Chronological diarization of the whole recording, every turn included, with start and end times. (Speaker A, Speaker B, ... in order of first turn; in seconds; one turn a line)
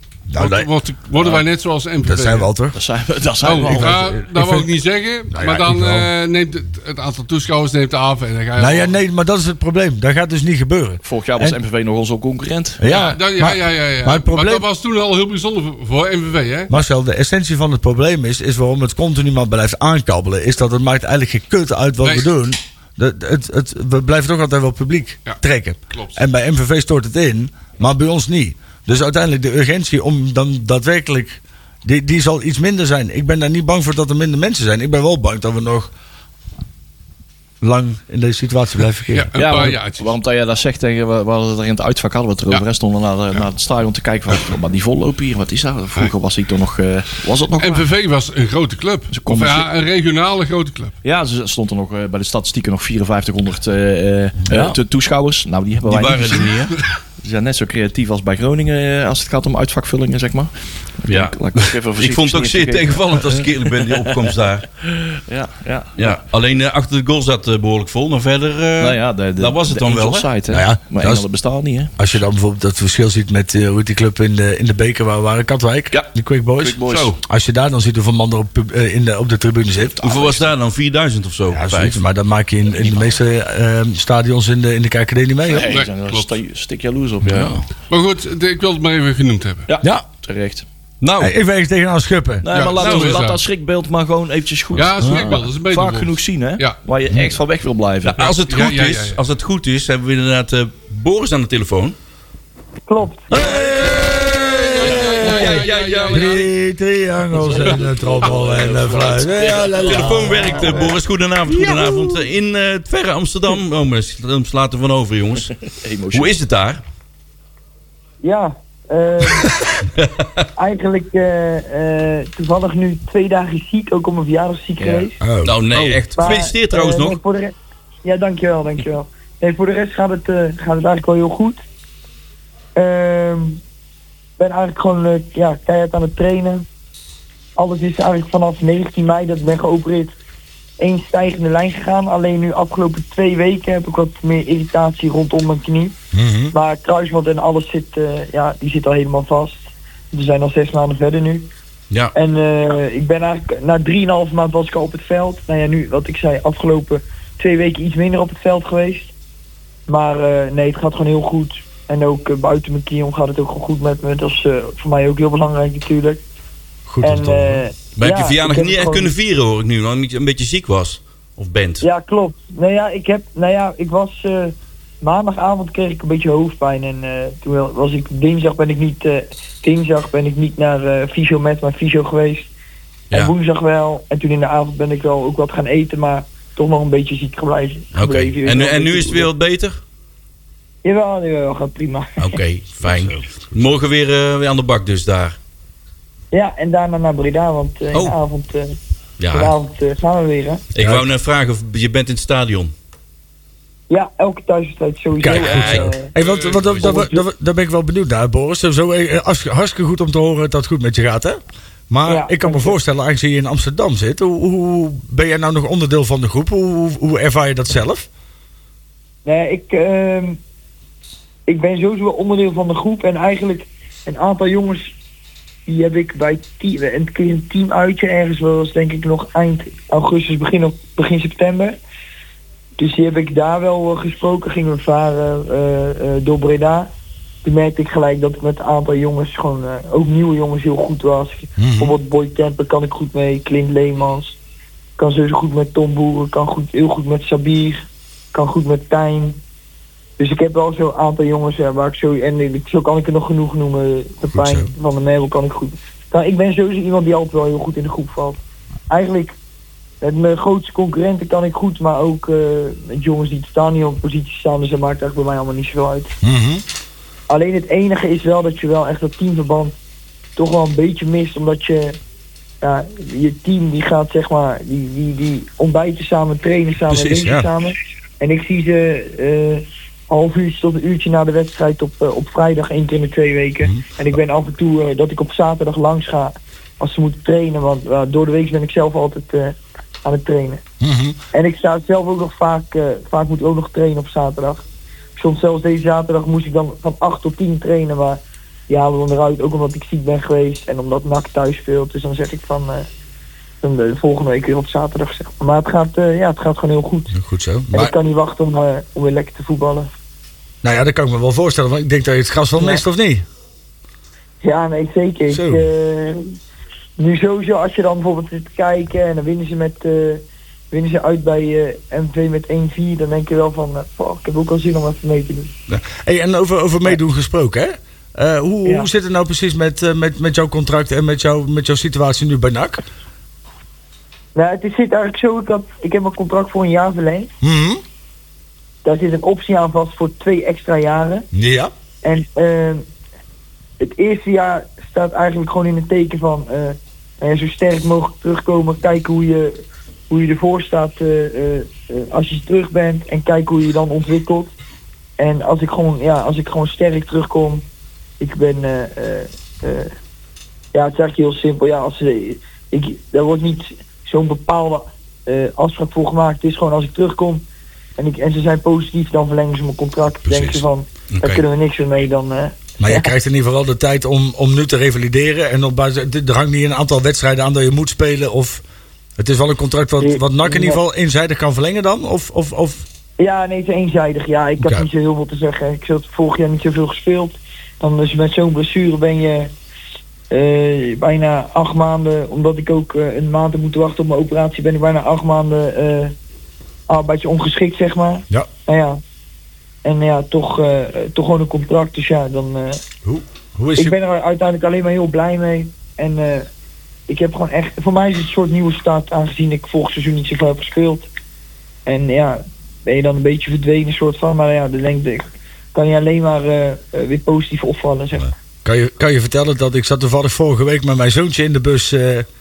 Speaker A: 0.3-0.7
Speaker B: 0.4-2.5
Speaker A: 2.0-2.8
Speaker C: 2.7-4.0
Speaker B: 3.4-9.0
Speaker A: 3.6-4.7
Speaker A: 5.3-6.1
Speaker A: 8.6-11.6
Speaker C: 11.0-12.8
Speaker A: 12.8-14.7
Speaker B: 12.9-16.7
Speaker A: 16.7-35.9
Speaker B: 22.0-22.3
Speaker B: 25.3-26.2
Speaker A: 37.6-39.7
Speaker B: 39.1-40.1
Speaker C: 39.4-47.9
Speaker B: 47.6-51.0
Speaker C: 49.1-49.7
Speaker C: 51.0-56.6
Speaker A: 54.5-54.8
Speaker D: 55.9-56.7
Speaker C: 57.2-64.3
Speaker D: 61.1-64.6
Speaker C: 64.8-66.2
Speaker D: 66.0-70.3
Speaker C: 68.8-72.0
Speaker A: 70.5-71.3
Speaker A: 72.0-80.0
Speaker C: 75.9-77.1
Speaker D: 76.9-77.2
Speaker C: 80.0-80.5
Speaker D: 80.0-82.0
Speaker A: 81.5-85.7
Speaker C: 82.8-83.1
Speaker C: 85.5-87.6
Speaker B: 85.7-86.4
Speaker A: 87.3-87.6
Speaker B: 87.9-89.7
Speaker C: 89.7-90.6
Speaker D: 91.0-91.3
Speaker A: 91.2-92.5
Speaker C: 92.4-98.3
Speaker B: 92.5-93.4
Speaker D: 92.8-93.2
Speaker B: 94.7-96.8
Speaker A: 95.0-95.4
Speaker D: 98.0-102.0
Speaker B: 98.2-99.2
Speaker E: 102.9-103.3
Speaker A: 103.3-111.0
Speaker D: 103.5-104.2
Speaker B: 104.5-106.5
Speaker D: 105.1-106.4
Speaker C: 105.4-105.7
Speaker C: 107.3-110.9
Speaker D: 109.7-115.6
Speaker A: 111.5-112.0
Speaker C: 115.8-116.4
Speaker D: 116.1-116.8
Speaker E: 118.2-119.5
Speaker D: 120.0-120.5
Speaker E: 120.6-125.2
Speaker C: 124.8-125.1
Speaker A: 125.2-126.0
Speaker D: 125.4-127.2
Speaker E: 126.1-131.6
Speaker E: 132.8-133.6
Speaker E: 134.4-136.6
Speaker E: 137.6-140.1
Speaker E: 140.8-146.0
Speaker A: 146.1-146.5
Speaker E: 146.5-149.6
Speaker E: 150.1-151.5
Speaker E: 152.1-159.1
Speaker E: 159.9-166.2
Speaker A: 166.9-167.6
Speaker E: 167.0-169.1
Speaker D: 168.0-171.9
Speaker E: 171.8-182.5
Speaker E: 183.1-189.3
Speaker D: 187.9-189.8
Speaker E: 190.8-192.4
Speaker D: 192.2-195.4
Speaker A: 192.8-193.6
Speaker E: 196.3-198.8
Speaker D: 199.2-199.6
Speaker E: 199.3-200.6
Speaker D: 200.8-202.7
Speaker A: 200.8-201.1
Speaker E: 203.9-206.1
Speaker A: 205.2-211.4
Speaker D: 205.3-207.0
Speaker B: 206.2-206.8
Speaker E: 206.8-207.2
Speaker A: 211.9-218.1
Speaker E: 212.1-212.8
Speaker E: 219.2-220.4
Speaker E: 221.5-224.9
Speaker E: 225.7-231.8
Speaker E: 232.8-236.9
Speaker E: 237.4-244.4
Speaker A: 241.6-241.9
Speaker E: 245.0-249.4
Speaker E: 250.2-258.4
Speaker A: 254.3-254.7
Speaker E: 258.9-259.4
Speaker E: 260.0-266.1
Speaker A: 266.2-266.6
Speaker E: 267.3-269.8
Speaker E: 270.4-272.0
Speaker E: 272.6-290.6
Speaker A: 276.9-277.5
Speaker A: 290.8-291.2
Speaker E: 291.3-294.6
Speaker E: 295.2-302.9
Speaker E: 303.6-307.1
Speaker A: 307.1-307.9
Speaker E: 307.7-309.9
Speaker A: 310.6-313.2
Speaker E: 312.6-312.8
Speaker E: 314.4-316.4
Speaker A: 315.3-315.7
Speaker E: 317.0-325.5
Speaker A: 325.7-332.8
Speaker E: 334.4-337.3
Speaker A: 337.4-337.8
Speaker E: 338.8-341.3
Speaker A: 341.3-341.7
Speaker E: 342.0-342.9
Speaker E: 343.8-349.5
Speaker E: 350.1-354.5
Speaker E: 355.2-357.6
Speaker E: 358.2-359.9
Speaker E: 360.7-367.4
Speaker E: 368.0-373.1
Speaker D: 371.1-371.4
Speaker A: 372.8-378.6
Speaker A: 379.2-382.9
Speaker E: 380.0-380.8
Speaker E: 383.2-389.5
Speaker A: 384.6-384.9
Speaker E: 390.3-396.1
Speaker E: 396.9-399.0
Speaker E: 399.9-402.8
Speaker A: 403.1-404.0
Speaker E: 403.8-406.5
Speaker E: 407.1-411.1
Speaker E: 411.9-418.3
Speaker A: 418.2-422.3